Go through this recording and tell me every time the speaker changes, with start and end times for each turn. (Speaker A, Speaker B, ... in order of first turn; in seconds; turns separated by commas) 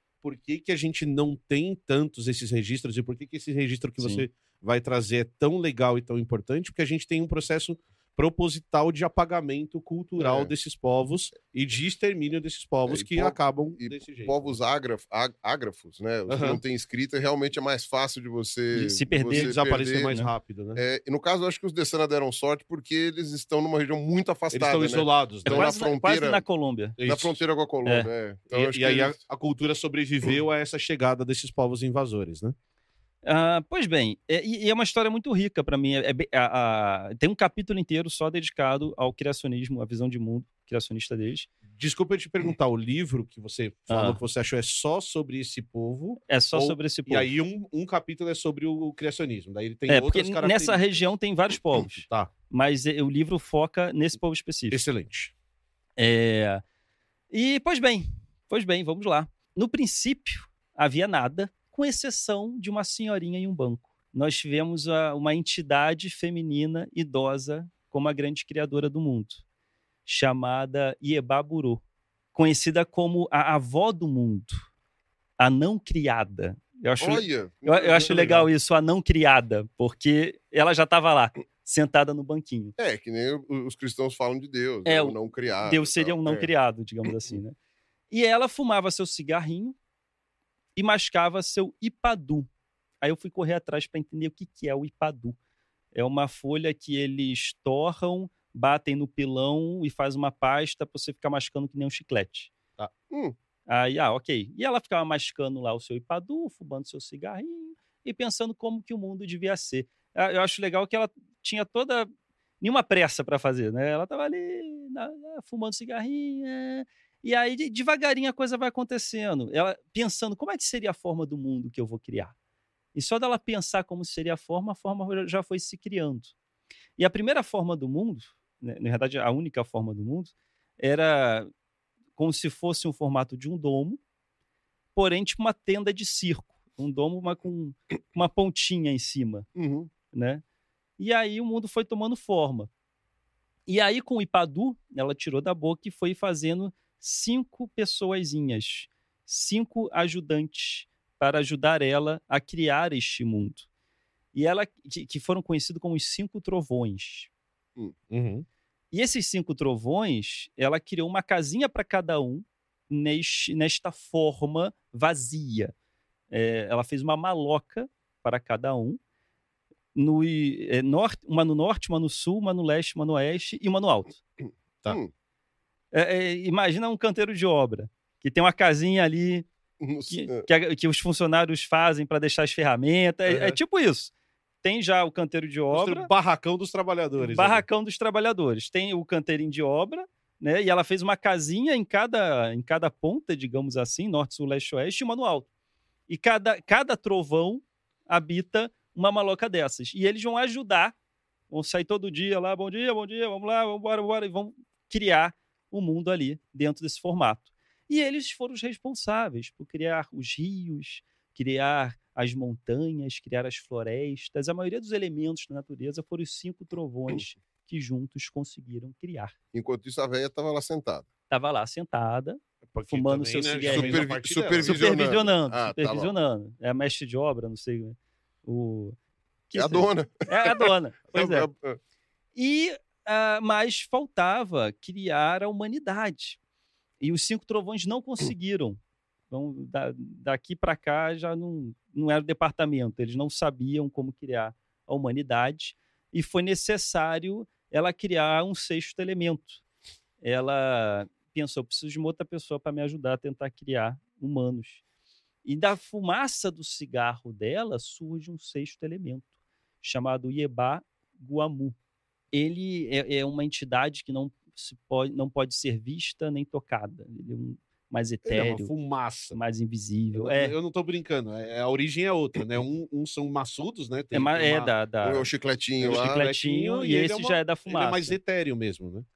Speaker A: 0.2-14.5, Speaker B: 4.0-4.2, Speaker C: 10.2-10.5, Speaker C: 12.9-20.1, Speaker A: 16.3-16.6, Speaker B: 18.7-20.3, Speaker A: 19.3-20.8, Speaker C: 20.8-26.4, Speaker A: 24.5-25.7, Speaker B: 25.5-27.0, Speaker A: 27.0-27.4, Speaker C: 27.0-29.2, Speaker A: 28.5-32.5, Speaker B: 33.2-41.5, Speaker A: 41.8-51.1, Speaker B: 43.9-44.2, Speaker B: 46.3-47.3, Speaker B: 49.9-54.8, Speaker A: 51.9-52.3, Speaker A: 54.7-55.3, Speaker B: 56.0-56.6, Speaker B: 57.3-69.4, Speaker B: 70.1-71.8, Speaker B: 72.3-74.7, Speaker B: 75.4-82.8, Speaker C: 77.0-78.5, Speaker C: 82.8-86.5, Speaker B: 84.9-87.5, Speaker B: 88.1-89.8, Speaker B: 90.8-92.5, Speaker B: 93.0-95.4, Speaker B: 96.0-102.5, Speaker B: 103.7-112.1, Speaker B: 112.6-122.3, Speaker B: 123.0-126.3, Speaker B: 127.0-131.5, Speaker B: 132.2-134.0, Speaker B: 134.9-139.5, Speaker C: 139.6-139.9, Speaker B: 140.1-140.4, Speaker B: 141.0-142.7, Speaker B: 143.7-153.7, Speaker B: 154.3-157.3, Speaker A: 158.1-158.5, Speaker B: 158.9-165.7, Speaker B: 166.3-169.0, Speaker B: 169.9-174.2, Speaker B: 175.9-179.5, Speaker C: 179.8-180.5, Speaker B: 180.1-184.1, Speaker A: 183.3-183.6, Speaker B: 184.6-186.1, Speaker A: 185.7-187.6, Speaker B: 187.2-195.5, Speaker B: 196.1-200.9, Speaker B: 201.5-219.3, Speaker C: 219.5-221.1, Speaker B: 221.3-224.1, Speaker A: 222.7-224.8, Speaker C: 223.6-226.1, Speaker B: 224.6-229.0, Speaker B: 229.5-231.5, Speaker C: 229.6-231.8, Speaker B: 232.3-236.4, Speaker B: 237.0-238.8, Speaker B: 239.3-249.6, Speaker B: 250.2-254.8, Speaker B: 255.4-259.3, Speaker B: 259.8-261.8, Speaker B: 262.3-268.7, Speaker A: 268.3-269.4, Speaker B: 269.3-270.6, Speaker A: 270.1-274.7, Speaker B: 274.1-275.3, Speaker C: 275.0-276.2, Speaker A: 275.8-279.1, Speaker B: 275.8-278.2